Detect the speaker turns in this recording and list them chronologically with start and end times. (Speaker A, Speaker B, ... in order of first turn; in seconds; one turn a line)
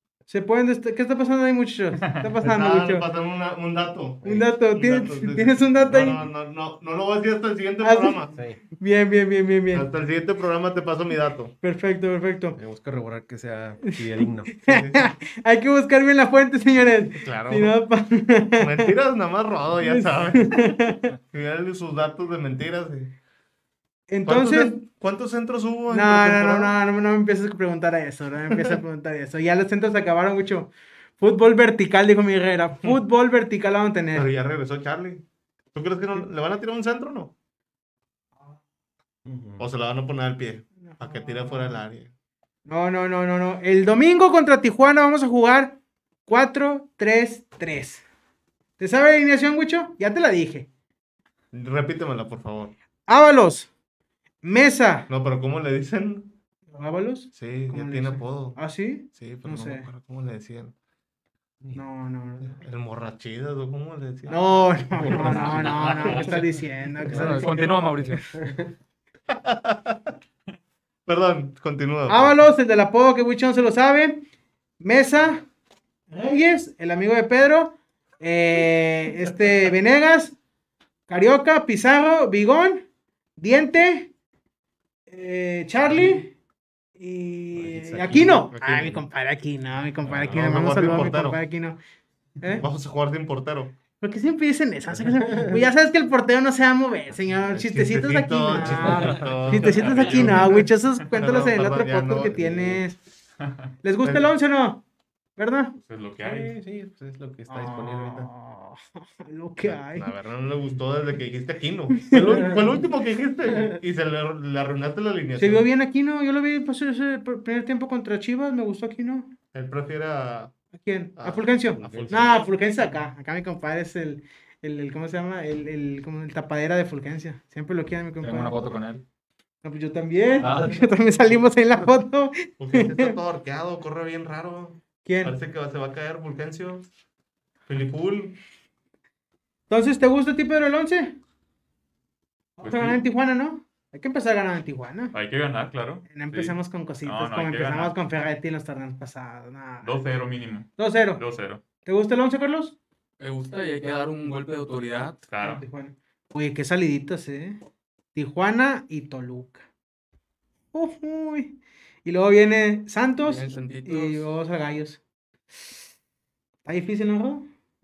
Speaker A: 0.3-3.0
Speaker B: 2.3-8.3
Speaker A: 4.2-6.2
Speaker A: 7.8-9.8
Speaker C: 8.3-8.6
Speaker B: 9.7-11.5
Speaker A: 11.6-12.6
Speaker C: 12.6-14.6
Speaker A: 13.8-18.9
Speaker B: 14.7-15.0
Speaker B: 17.2-17.8
Speaker B: 18.6-23.1
Speaker A: 19.8-21.1
Speaker A: 24.1-24.7
Speaker B: 24.2-26.7
Speaker A: 25.9-34.3
Speaker B: 34.1-37.3
Speaker C: 39.2-39.7
Speaker B: 39.6-42.1
Speaker A: 40.9-41.8
Speaker A: 42.7-48.0
Speaker A: 48.8-50.7
Speaker B: 51.5-52.7
Speaker A: 53.1-53.7
Speaker A: 54.4-55.1
Speaker B: 55.1-56.3
Speaker A: 56.7-59.9
Speaker B: 57.3-60.7
Speaker A: 61.7-62.6
Speaker B: 62.5-64.4
Speaker A: 64.3-68.3
Speaker B: 65.0-66.3
Speaker C: 65.0-65.7
Speaker D: 67.1-68.4
Speaker B: 69.3-70.1
Speaker B: 71.0-72.3
Speaker A: 72.1-74.2
Speaker A: 74.8-75.4
Speaker A: 76.1-80.3
Speaker A: 81.1-82.8
Speaker A: 83.4-84.1
Speaker A: 85.1-86.3
Speaker C: 85.9-86.1
Speaker A: 87.0-91.8
Speaker C: 87.5-88.5
Speaker B: 88.5-89.0
Speaker B: 90.2-91.4
Speaker A: 92.4-92.7
Speaker B: 92.6-93.8
Speaker A: 94.0-103.0
Speaker C: 95.2-95.6
Speaker B: 97.5-102.8
Speaker C: 98.5-99.4
Speaker E: 99.6-100.7
Speaker A: 103.8-104.8
Speaker B: 104.0-104.3
Speaker A: 105.4-105.7
Speaker E: 105.8-106.6
Speaker C: 106.2-108.3
Speaker A: 107.5-110.1
Speaker B: 109.6-115.7
Speaker A: 112.1-112.5
Speaker C: 112.1-112.7
Speaker A: 115.4-119.3
Speaker B: 119.5-120.5
Speaker A: 120.7-128.6
Speaker B: 121.2-122.4
Speaker C: 121.8-122.4
Speaker D: 128.2-129.0
Speaker A: 129.6-133.2
Speaker D: 130.4-131.1
Speaker B: 132.6-136.9
Speaker A: 135.0-135.3
Speaker B: 137.7-138.4
Speaker A: 139.7-141.2
Speaker A: 142.6-145.1
Speaker E: 142.6-143.0
Speaker E: 145.1-147.9
Speaker A: 146.1-150.0
Speaker E: 149.8-151.6
Speaker A: 150.8-151.2
Speaker A: 151.8-152.8
Speaker F: 153.2-155.3
Speaker E: 155.3-155.6
Speaker A: 155.4-157.6
Speaker A: 158.1-159.6
Speaker A: 160.7-165.0
Speaker F: 163.2-164.2
Speaker A: 166.6-167.4